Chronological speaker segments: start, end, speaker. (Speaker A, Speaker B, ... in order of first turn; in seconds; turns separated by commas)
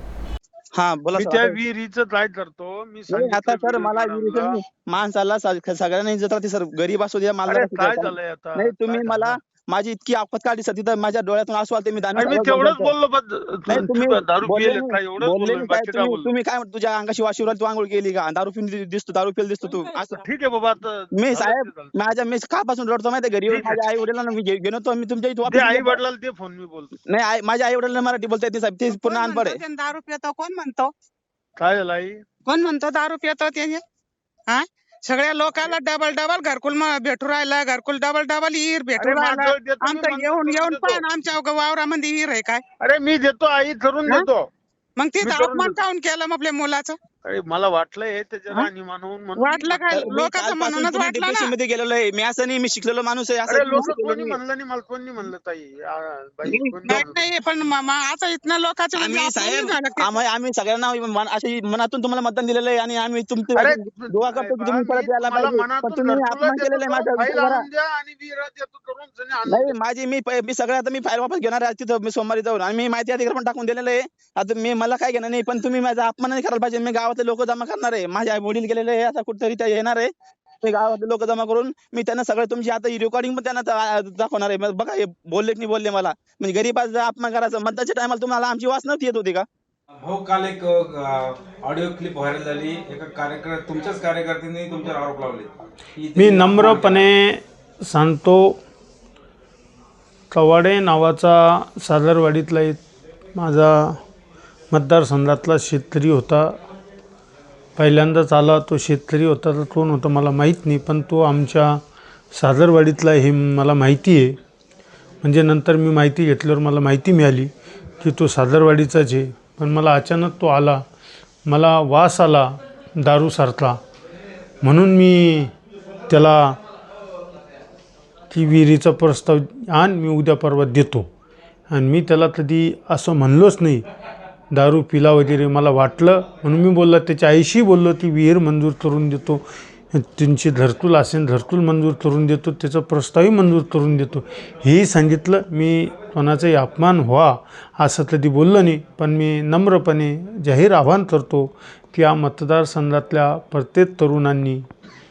Speaker A: 0.7-1.6, Speaker B: 1.1-4.6, Speaker A: 3.1-12.9, Speaker B: 7.5-9.4, Speaker B: 12.2-16.3, Speaker A: 13.7-20.2, Speaker B: 19.9-22.2, Speaker A: 21.2-26.0, Speaker B: 23.5-23.9, Speaker B: 25.5-26.9, Speaker A: 27.1-29.6, Speaker C: 28.9-30.9, Speaker B: 31.6-32.2, Speaker C: 32.5-33.8, Speaker C: 34.5-42.6, Speaker B: 39.0-41.0, Speaker B: 42.8-44.5, Speaker C: 45.0-47.0, Speaker B: 45.2-45.8, Speaker B: 47.2-49.9, Speaker C: 49.4-51.5, Speaker A: 49.9-54.4, Speaker B: 53.5-57.3, Speaker A: 56.5-56.8, Speaker C: 56.8-60.2, Speaker A: 58.9-67.6, Speaker B: 63.5-69.8, Speaker A: 69.5-80.1, Speaker A: 80.6-89.5, Speaker D: 90.0-97.1, Speaker E: 96.2-98.6, Speaker E: 100.3-102.8, Speaker E: 103.3-104.0, Speaker E: 104.7-106.6, Speaker E: 107.8-114.4, Speaker E: 115.2-120.8, Speaker E: 121.5-123.8, Speaker E: 124.6-125.5, Speaker E: 126.1-126.6, Speaker E: 128.3-131.1, Speaker E: 131.7-133.9, Speaker E: 134.5-154.7